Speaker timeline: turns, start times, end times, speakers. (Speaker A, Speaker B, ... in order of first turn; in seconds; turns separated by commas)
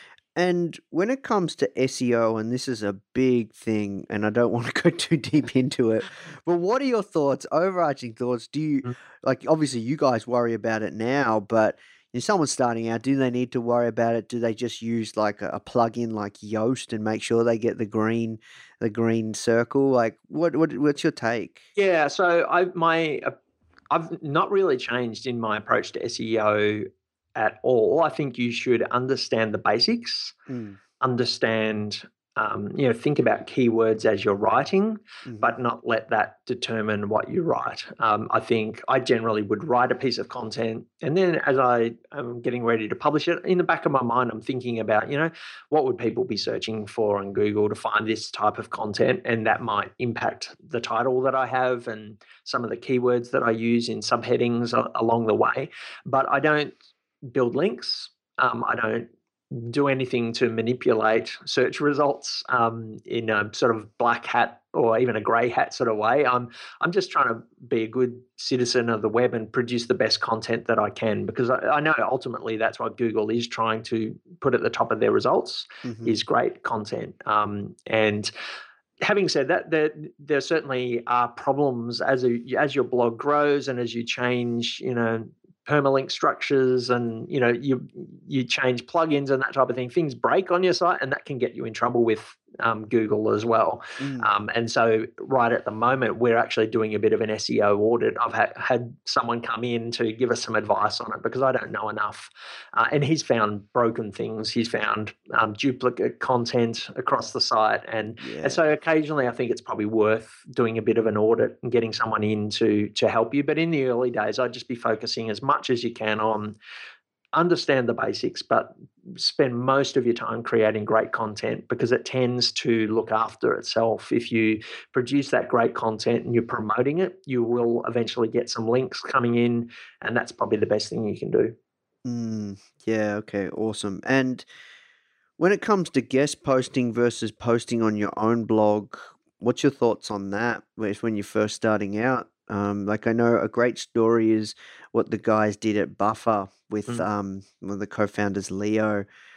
Speaker A: 0.3-21.6, Speaker B: 21.8-23.3, Speaker B: 23.9-30.3, Speaker A: 30.5-30.8, Speaker B: 31.0-78.3, Speaker A: 35.2-35.5, Speaker A: 75.8-76.2, Speaker B: 79.0-116.5, Speaker A: 94.0-94.3, Speaker A: 108.2-108.6, Speaker B: 117.3-131.5, Speaker A: 132.0-134.4, Speaker A: 135.4-149.1